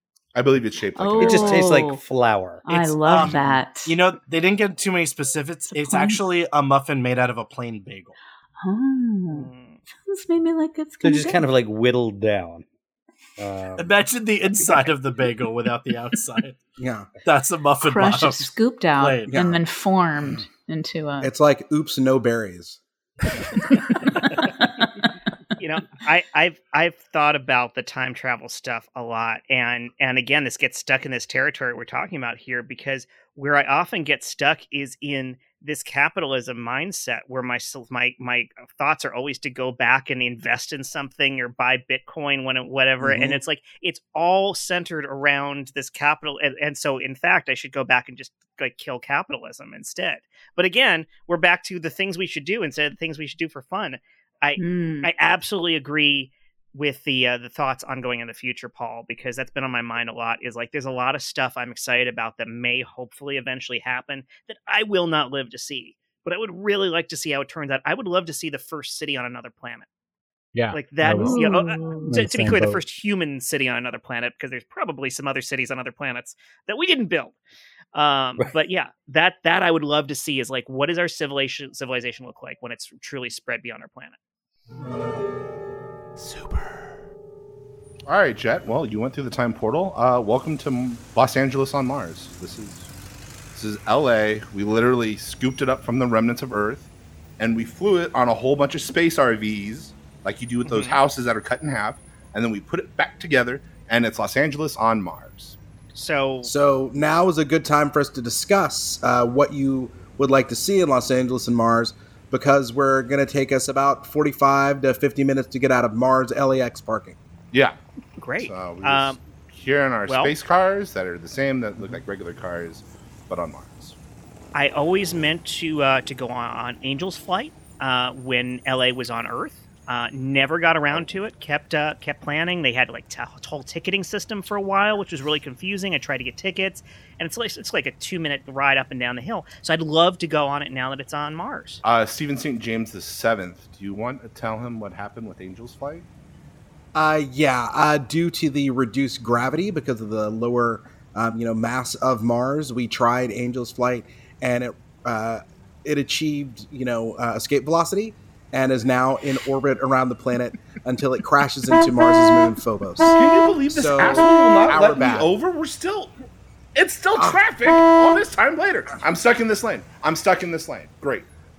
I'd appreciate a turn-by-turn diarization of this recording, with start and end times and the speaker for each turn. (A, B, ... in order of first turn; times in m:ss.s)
0:00.3-0:01.8 A
0:01.0-0:02.0 B
0:01.2-0:02.6 C
0:02.6-0:04.0 B
0:02.7-0:08.2 D
0:05.7-0:06.2 B
0:08.6-0:11.4 B
0:09.3-0:09.8 E
0:11.0-0:12.6 C
0:13.4-0:14.0 C
0:13.8-0:16.6 D
0:16.8-0:17.1 F
0:17.2-0:19.4 D
0:17.8-0:21.3 B
0:19.3-0:19.6 F
0:21.2-0:22.8 F
0:25.6-1:09.9 E
0:43.0-0:43.4 F
0:54.6-0:55.1 B
1:10.6-1:12.8 G
1:10.7-1:17.4 E
1:11.2-1:12.0 B
1:17.9-1:24.2 E
1:28.1-1:32.9 A
1:33.6-1:45.6 A
1:40.6-1:41.0 E
1:45.9-1:46.5 E
1:46.4-1:57.2 F
1:57.5-1:57.8 A
1:58.2-1:59.2 E
1:58.4-2:04.0 A
2:00.1-2:00.3 E
2:04.5-2:21.8 E
2:21.8-2:26.1 A
2:26.9-2:43.2 F
2:43.1-2:46.1 A
2:43.7-2:45.3 F
2:46.8-2:51.3 A